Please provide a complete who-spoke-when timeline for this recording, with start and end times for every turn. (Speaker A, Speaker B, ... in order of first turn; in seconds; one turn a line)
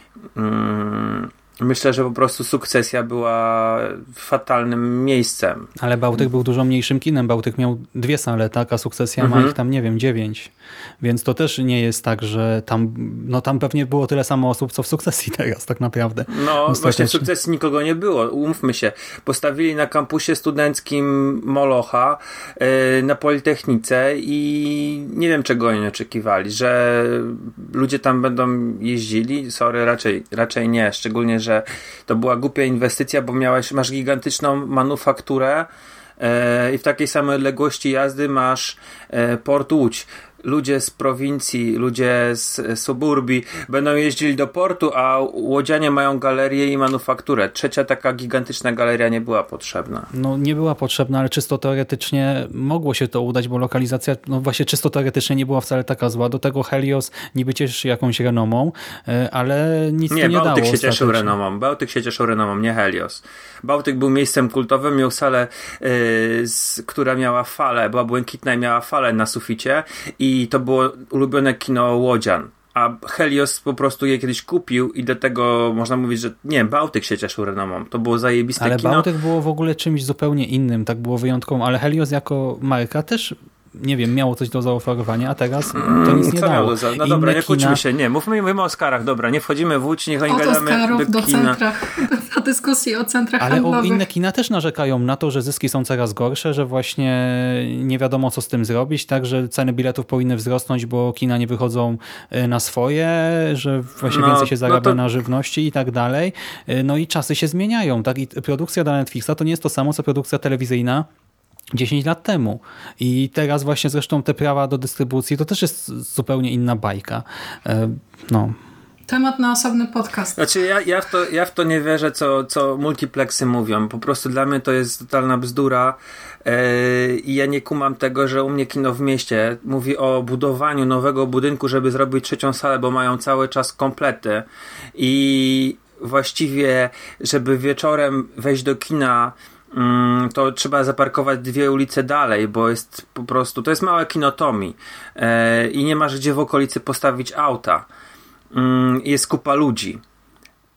Speaker A: 0.3-5.7
Speaker B: 5.8-17.3
Speaker A: 9.2-9.5
Speaker A: 16.3-50.1
Speaker B: 50.1-61.3
Speaker A: 60.1-79.1
Speaker B: 78.6-87.8
Speaker A: 85.8-91.6
Speaker C: 90.3-94.0
Speaker B: 93.4-111.1
Speaker A: 104.0-105.0
Speaker B: 111.7-118.5
Speaker C: 119.1-120.4
Speaker A: 120.4-147.8
Speaker A: 148.5-150.0